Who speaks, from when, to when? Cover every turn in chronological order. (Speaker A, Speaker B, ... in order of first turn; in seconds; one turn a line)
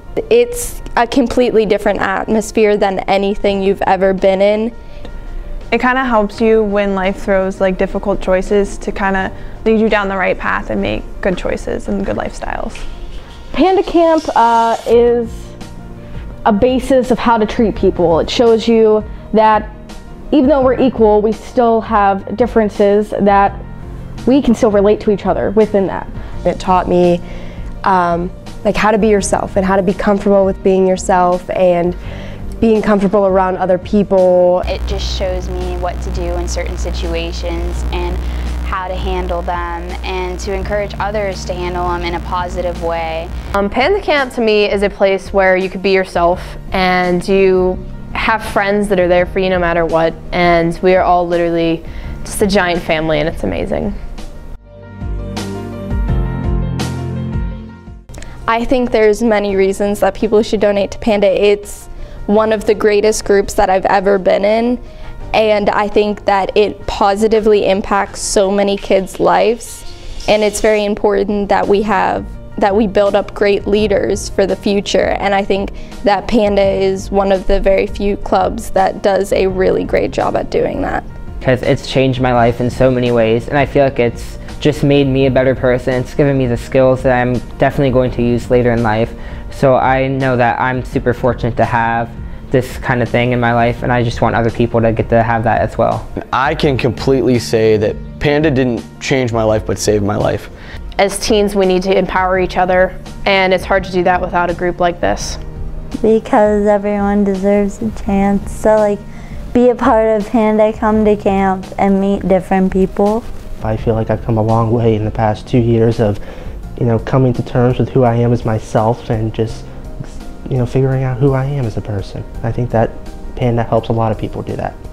Speaker A: 0.3-4.7
Speaker B: 5.7-12.8
Speaker C: 13.5-15.5
Speaker C: 16.4-19.7
Speaker C: 20.3-23.6
Speaker C: 24.2-26.1
Speaker D: 26.4-27.2
Speaker D: 27.8-32.0
Speaker D: 32.6-34.6
Speaker E: 34.7-43.3
Speaker F: 43.5-54.0
Speaker A: 58.5-64.8
Speaker A: 65.3-81.0
Speaker G: 81.4-96.0
Speaker H: 96.2-100.5
Speaker F: 101.0-105.4
Speaker I: 106.0-109.0
Speaker I: 109.5-113.2
Speaker J: 113.6-116.2
Speaker J: 116.8-119.6
Speaker J: 120.5-124.8